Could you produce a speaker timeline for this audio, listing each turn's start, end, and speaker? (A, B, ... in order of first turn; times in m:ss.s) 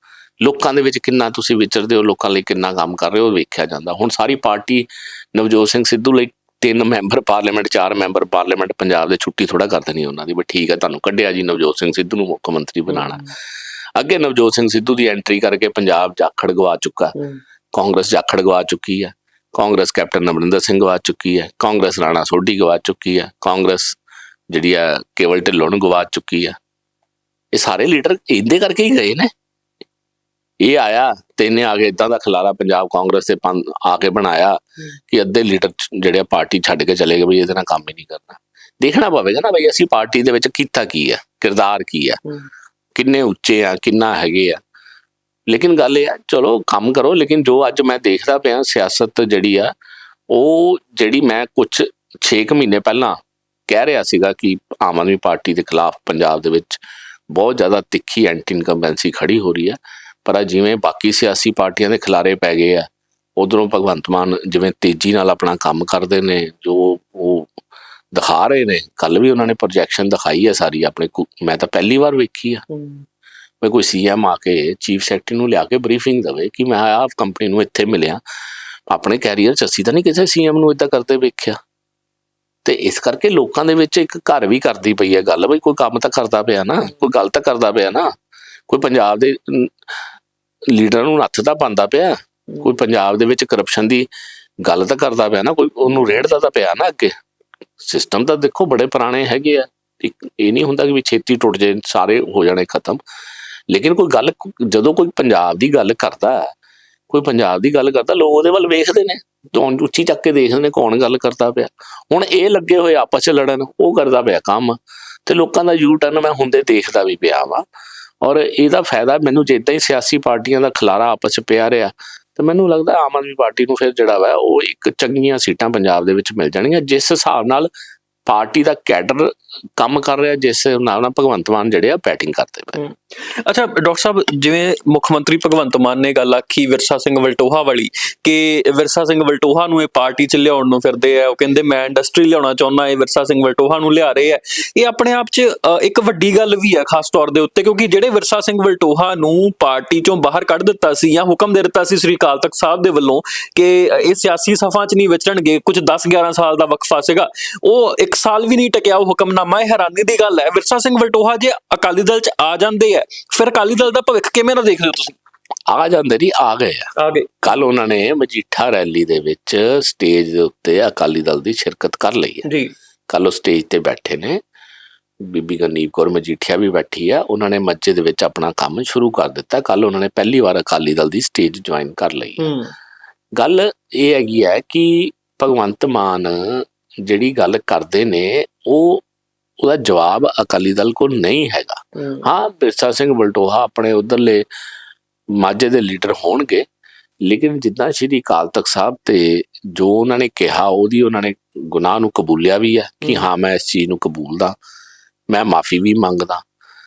0:00.4-0:13.3 A
0:14.0-0:17.2 A
0:17.7-0:24.0 A
0:24.5-0:26.6 A
0:27.5-0:29.3 A
0:30.6-0:42.2 A
0:42.9-0:44.6 A
0:45.5-0:49.7 A
0:50.3-0:53.2 A
0:53.7-1:07.5 A
1:08.1-1:12.6 A
1:12.7-1:13.0 B
1:13.6-1:18.2 A
1:18.9-1:21.6 A
1:22.6-1:28.1 A
1:28.7-1:30.0 A
1:30.7-1:34.1 A
1:34.6-1:37.1 A
1:37.8-1:43.0 A
1:43.7-1:46.5 A
1:47.1-1:57.6 A
1:58.2-2:07.7 A
2:08.2-2:12.8 A
2:12.8-2:45.2 B
2:45.7-2:52.5 A
2:47.0-2:47.5 B
2:52.4-2:52.7 B
2:53.1-2:54.4 A
2:55.2-3:02.5 A
3:02.4-3:02.7 B
3:03.4-3:09.0 A
3:09.6-3:14.4 A
3:12.0-3:12.2 B
3:15.3-3:16.6 A
3:17.2-3:24.5 A
3:25.3-3:26.4 A